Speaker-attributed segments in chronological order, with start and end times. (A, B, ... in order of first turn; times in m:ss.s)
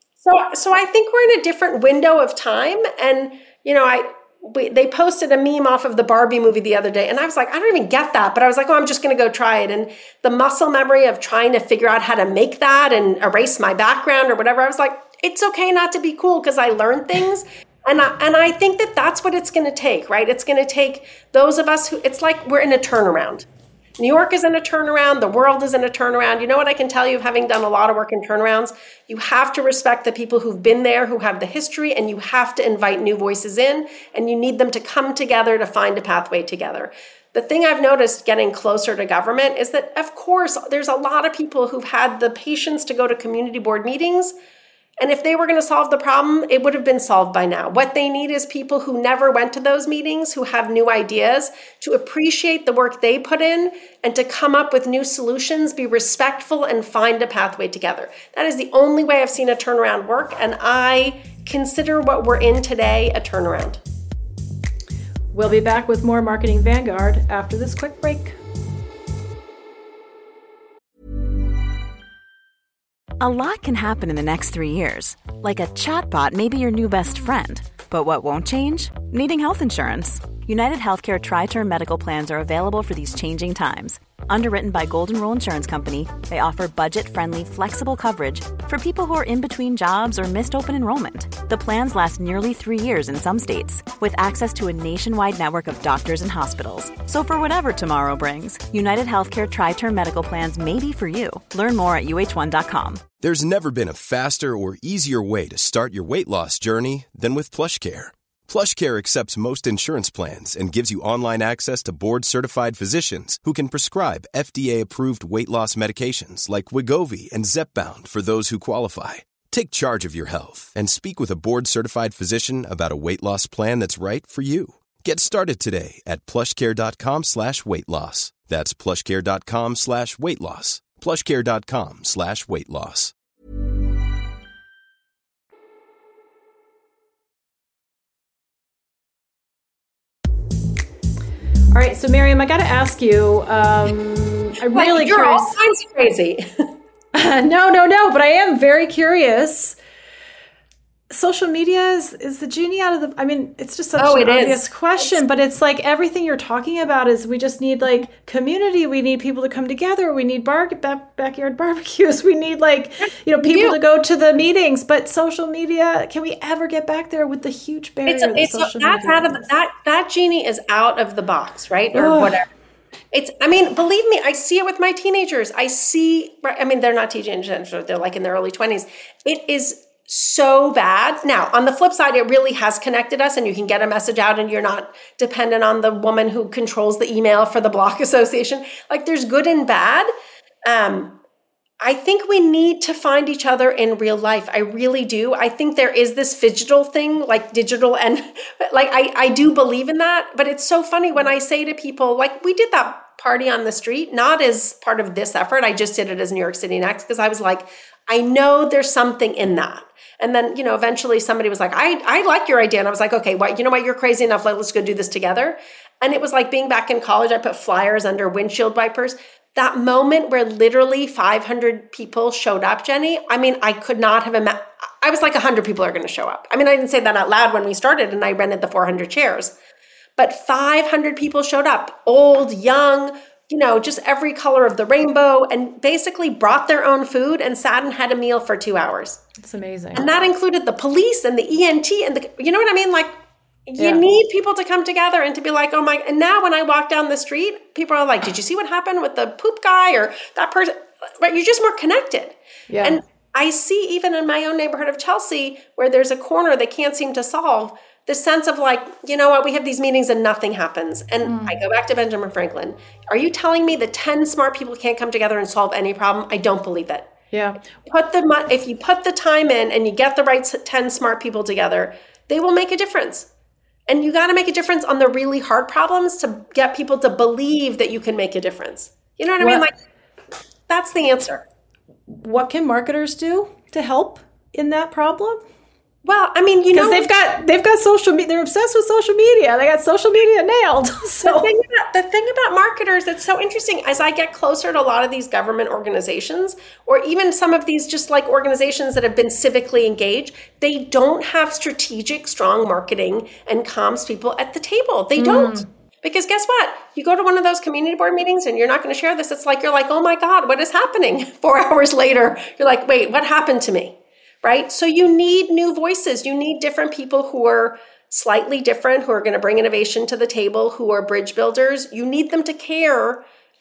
0:00.2-0:23.5 A
0:24.0-0:44.3 A
0:45.0-1:03.8 A
1:05.3-1:08.4 B
1:13.2-1:43.1 C
1:43.2-2:13.1 D
2:21.7-2:25.6 B
2:24.7-2:26.7 A
2:27.1-2:29.8 B
2:31.1-2:49.5 B
2:34.0-2:35.2 A
2:43.4-2:43.8 A
2:48.1-2:52.5 A
2:51.9-2:52.4 B
2:53.1-3:10.1 A
3:10.6-3:11.2 A
3:11.8-3:49.5 A
3:50.2-3:59.2 A
3:59.4-4:00.1 B
4:00.0-4:03.1 A
4:03.7-4:27.1 A
4:03.8-4:04.0 B
4:12.7-4:13.0 B
4:21.2-4:21.6 B
4:27.3-4:27.6 B
4:27.9-4:33.3 A
4:33.9-4:39.7 A
4:39.4-4:39.6 B
4:40.7-4:41.4 A
4:42.1-4:45.4 B
4:46.0-4:47.1 A
4:46.7-4:51.5 B
4:51.2-5:23.2 A
5:05.2-5:05.7 B